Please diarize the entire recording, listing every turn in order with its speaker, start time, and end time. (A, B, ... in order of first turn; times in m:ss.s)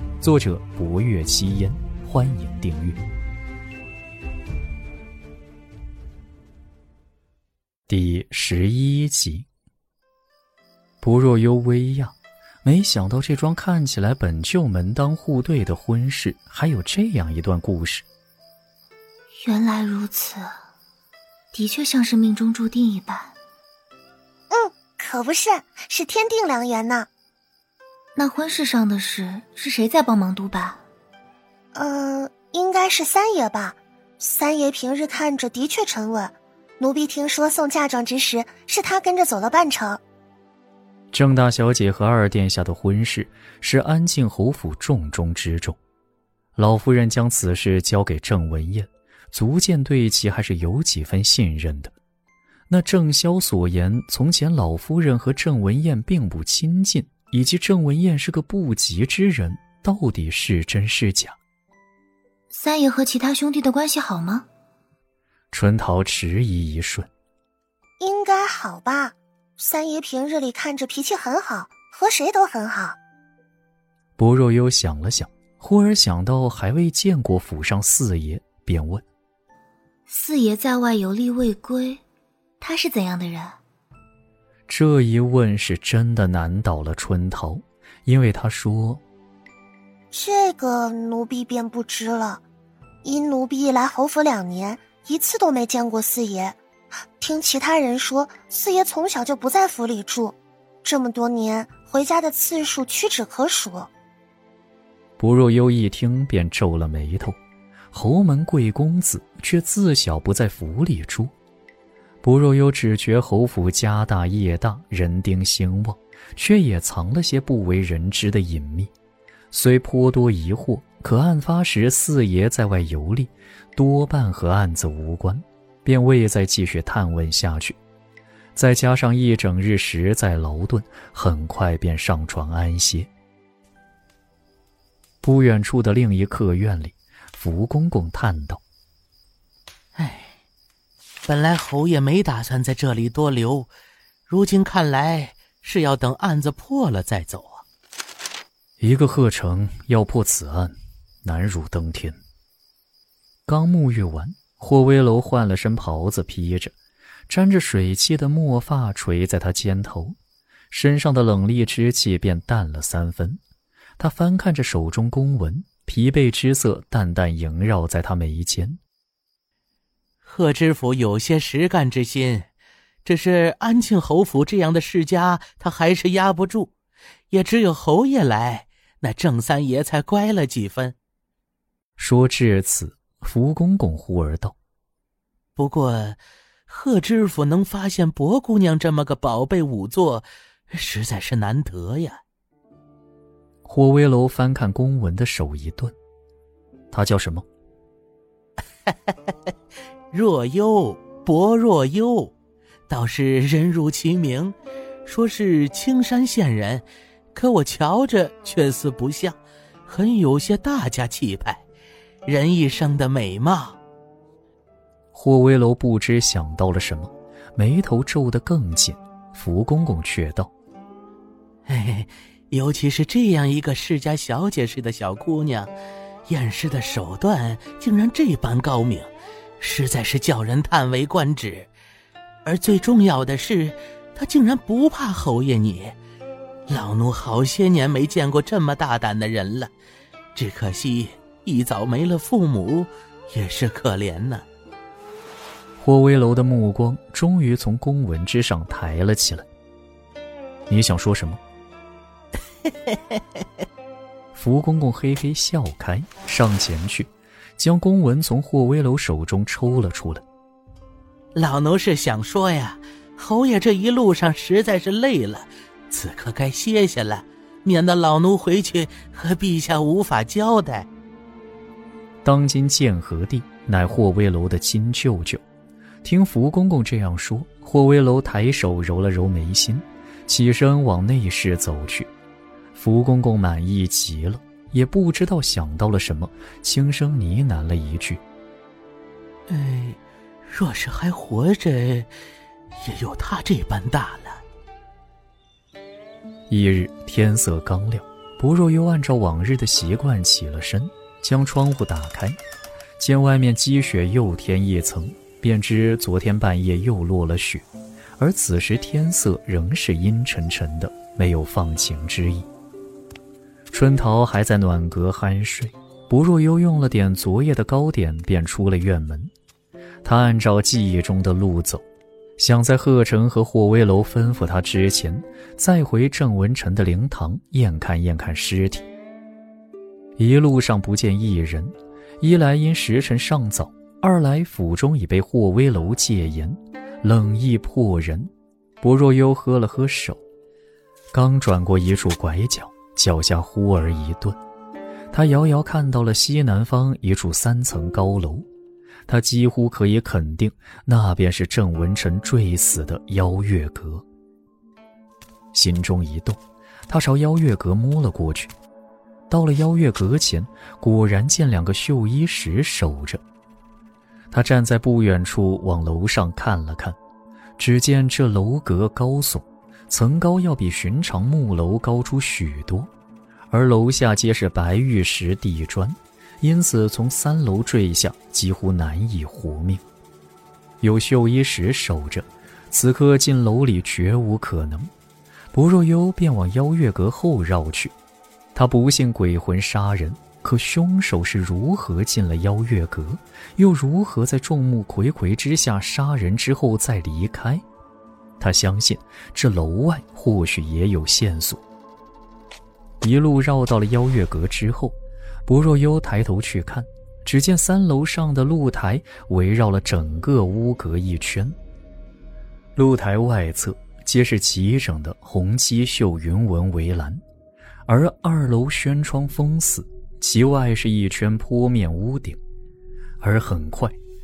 0:00.2-0:03.0 A
0:07.9-0:09.5 A
0:11.0-0:18.1 A
0:19.4-0:20.5 B
0:21.5-0:23.3 B
0:24.5-0:27.1 C
0:28.2-0:30.8 B
0:31.8-0:40.0 C
0:41.1-0:45.8 A
0:46.6-0:51.9 A
0:52.7-1:01.4 A
1:02.5-1:04.5 B
1:05.5-1:07.1 A
1:08.0-1:13.0 C
1:14.2-1:19.0 A
1:20.1-1:22.0 B
1:22.6-1:23.6 B
1:24.7-1:29.0 A
1:30.1-1:32.4 C
1:33.0-1:36.6 C
1:37.2-1:43.9 C
1:45.2-1:47.4 A
1:47.9-1:51.3 A
1:52.2-1:58.9 A
1:59.5-2:07.8 A
2:08.6-2:13.1 A
2:15.2-2:18.6 A
2:20.0-2:20.4 D
2:21.3-2:23.7 D
2:24.3-2:27.6 D
2:28.8-2:32.2 A
2:33.5-2:36.8 A
2:37.3-2:40.2 A
2:40.7-2:43.4 A
2:44.0-2:48.8 A
2:50.2-2:52.5 D
2:53.0-2:56.7 D
2:57.3-3:01.0 D
3:02.0-3:04.6 A
3:05.6-3:12.2 D
3:13.6-3:16.0 A
3:16.9-3:17.5 A
3:18.9-3:19.4 D
3:20.1-3:22.3 D
3:22.9-3:31.6 D
3:32.3-3:33.8 D
3:35.1-3:40.5 A
3:41.7-3:45.7 D
3:46.3-3:51.7 D
3:52.4-3:56.0 D
3:56.7-3:59.7 D
4:00.4-4:04.4 D
4:05.8-4:09.5 A
4:10.7-4:11.4 A
4:12.9-4:13.2 D
4:14.3-4:20.2 A
4:21.4-4:30.9 D
4:32.2-4:35.4 A
4:36.0-4:42.1 A
4:42.7-4:48.2 A
4:49.5-4:52.1 D
4:52.8-4:54.4 D
4:56.5-5:02.4 A
5:03.0-5:07.7 A
5:08.2-5:12.5 A
5:13.7-5:19.3 A
5:20.0-5:21.8 A
5:22.4-5:28.9 A
5:30.2-5:38.3 A
5:38.8-5:40.2 A
5:41.1-5:44.4 A
5:45.1-5:48.5 A
5:49.1-5:54.1 A
5:55.5-5:58.5 A
5:59.3-6:03.2 A
6:04.3-6:07.0 A
6:07.6-6:12.9 A
6:13.5-6:19.8 A
6:20.8-6:24.9 A
6:25.5-6:27.9 A
6:28.6-6:37.6 A
6:38.4-6:41.6 A
6:43.0-6:51.6 A
6:52.8-6:57.2 A
6:57.9-7:02.4 A
7:03.2-7:04.0 A